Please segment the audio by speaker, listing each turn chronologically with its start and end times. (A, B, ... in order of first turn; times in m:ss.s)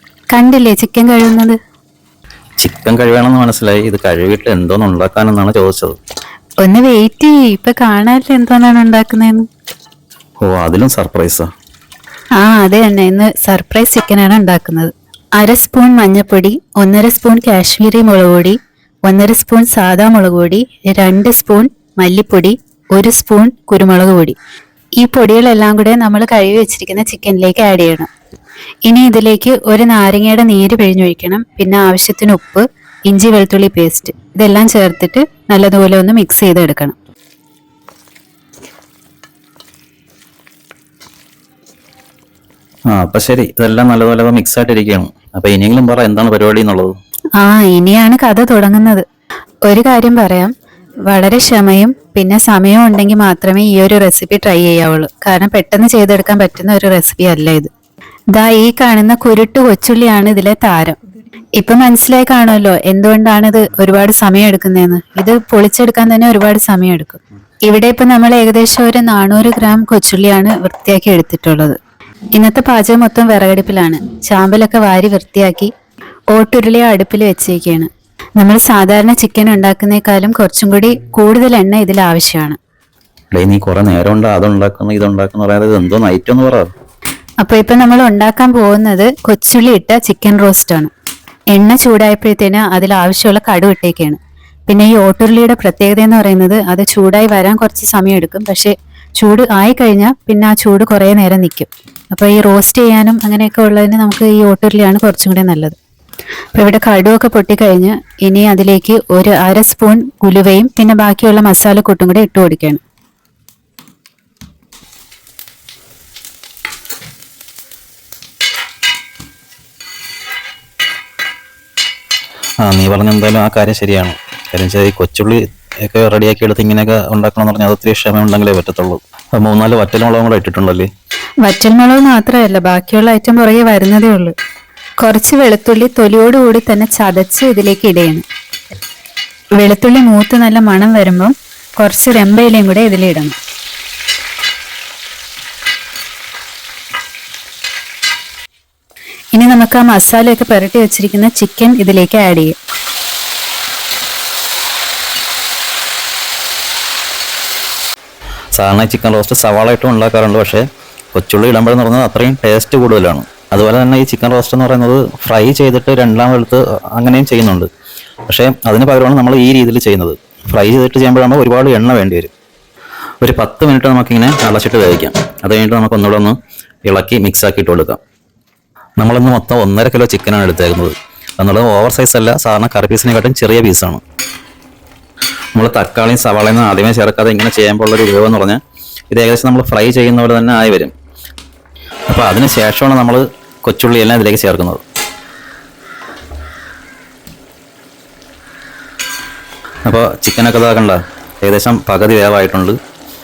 0:00.3-0:01.6 A
0:02.6-0:06.0 B
0:06.6-0:09.5 A
0:10.4-0:11.5 B
0:12.4-0:24.4 A
0:25.0-0:28.1 A
0:28.9-0:37.0 A
0:42.9-0:47.0 B
0:47.4-0:49.0 A
0:49.7-0:50.5 A
0:51.1-0:57.7 A
0:58.3-1:01.0 A
1:01.6-1:11.8 A
1:12.4-1:15.7 A
1:16.3-1:22.6 A
1:23.3-1:26.7 B
1:27.4-1:30.9 A
1:31.5-1:45.8 A
1:46.6-1:52.8 A
2:02.6-2:10.9 B
2:11.4-2:14.4 A
2:15.0-2:18.2 A
2:19.6-2:23.4 A
2:29.3-2:32.6 A
2:38.6-2:47.7 B
2:48.3-2:52.3 B
2:53.2-2:58.0 B
2:59.0-3:04.0 B
3:05.6-3:08.6 B
3:09.1-3:10.9 B
3:12.1-3:14.8 B
3:19.8-3:22.8 B